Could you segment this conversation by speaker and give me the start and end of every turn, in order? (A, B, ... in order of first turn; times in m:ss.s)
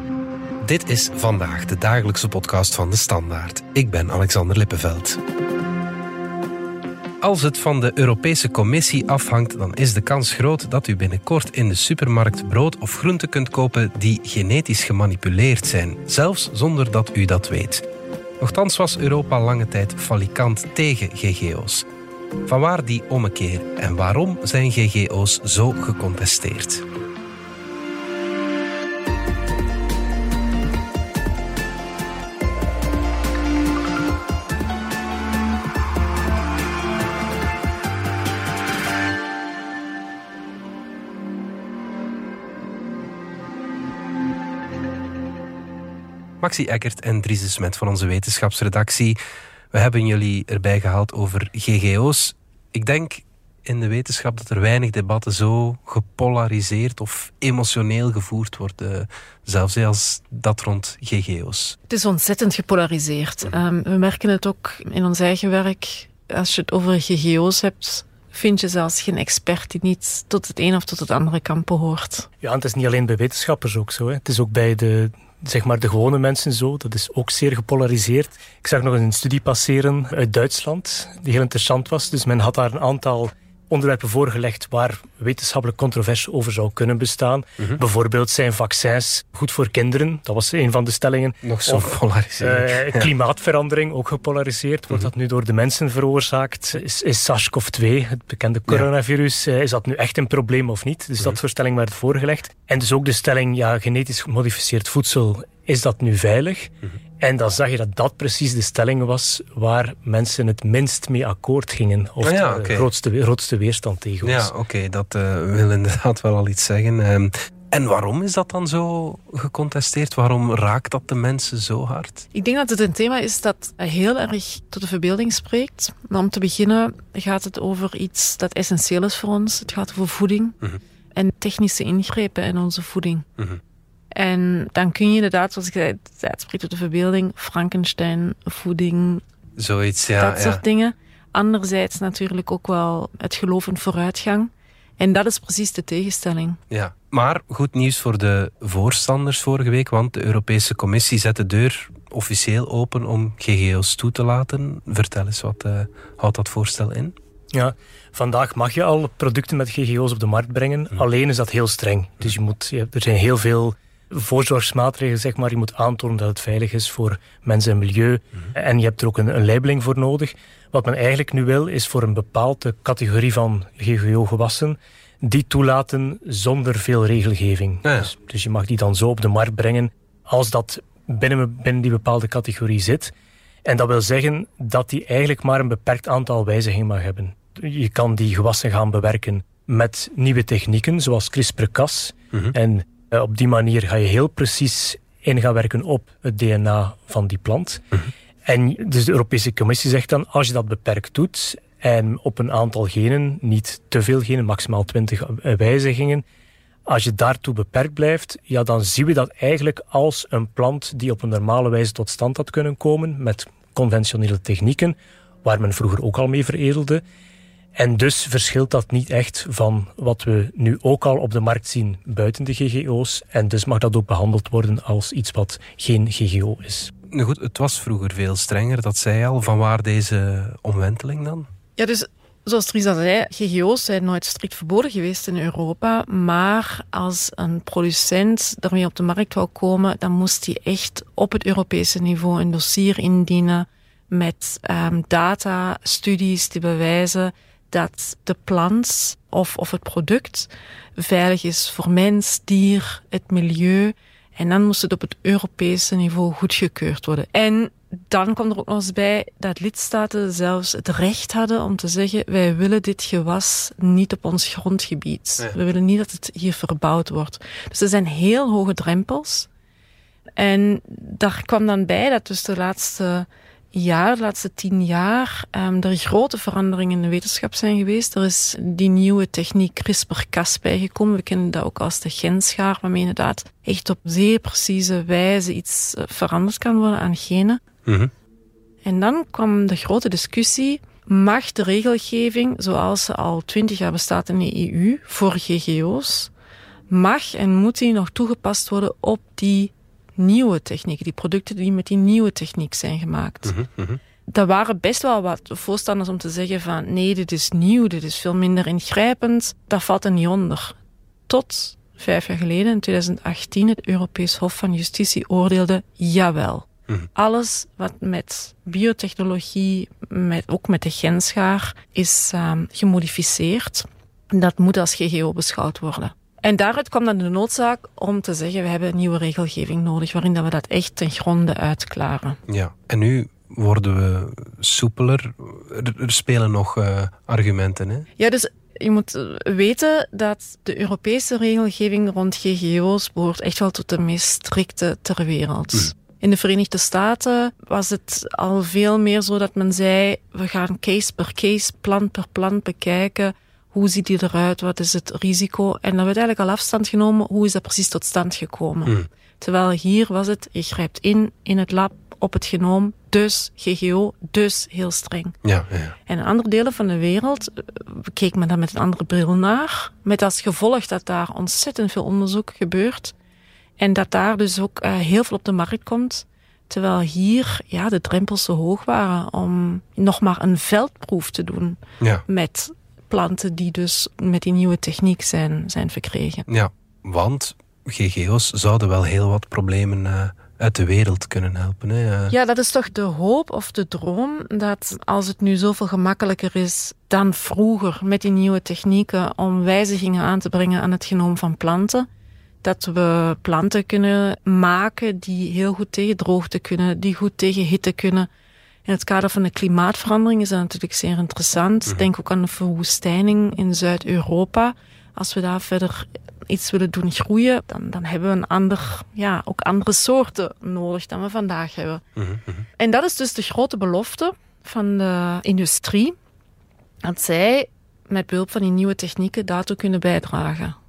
0:00.6-0:05.2 A
0:07.2-0:17.9 A
0:18.4-0:21.9 A
0:22.4-0:26.9 A
0:46.4-0:49.2 A
0:49.7-1:01.8 A
1:01.9-1:12.3 B
1:12.4-1:54.5 C
1:31.4-1:33.1 A
1:52.2-1:52.9 A
1:54.2-2:02.3 A
2:02.3-2:10.6 B
2:11.2-2:13.3 B
2:14.1-2:19.2 B
2:19.6-2:20.6 A
2:20.2-2:26.6 B
2:26.7-2:37.2 A
2:37.5-3:03.1 C
2:57.8-2:58.1 A
3:03.7-3:17.8 C
3:18.4-3:26.2 C
3:26.9-3:37.0 C
3:37.8-3:46.9 C
3:47.1-3:51.5 A
3:51.8-4:29.5 B
4:30.4-4:47.6 B
4:47.9-4:48.1 A
4:48.8-4:56.3 B
4:56.9-5:03.6 B
5:03.4-5:04.0 A
5:04.3-5:10.8 B
5:11.3-5:32.4 B
5:32.5-5:38.1 A
5:38.2-6:05.4 B
6:05.4-6:06.0 A
6:06.1-6:13.1 B
6:13.8-6:26.5 B
6:26.5-6:32.4 A
6:32.3-6:42.1 B
6:42.6-6:48.3 B
6:48.9-7:02.0 B
7:02.2-7:02.7 A
7:02.8-7:06.2 B
7:07.0-7:10.8 B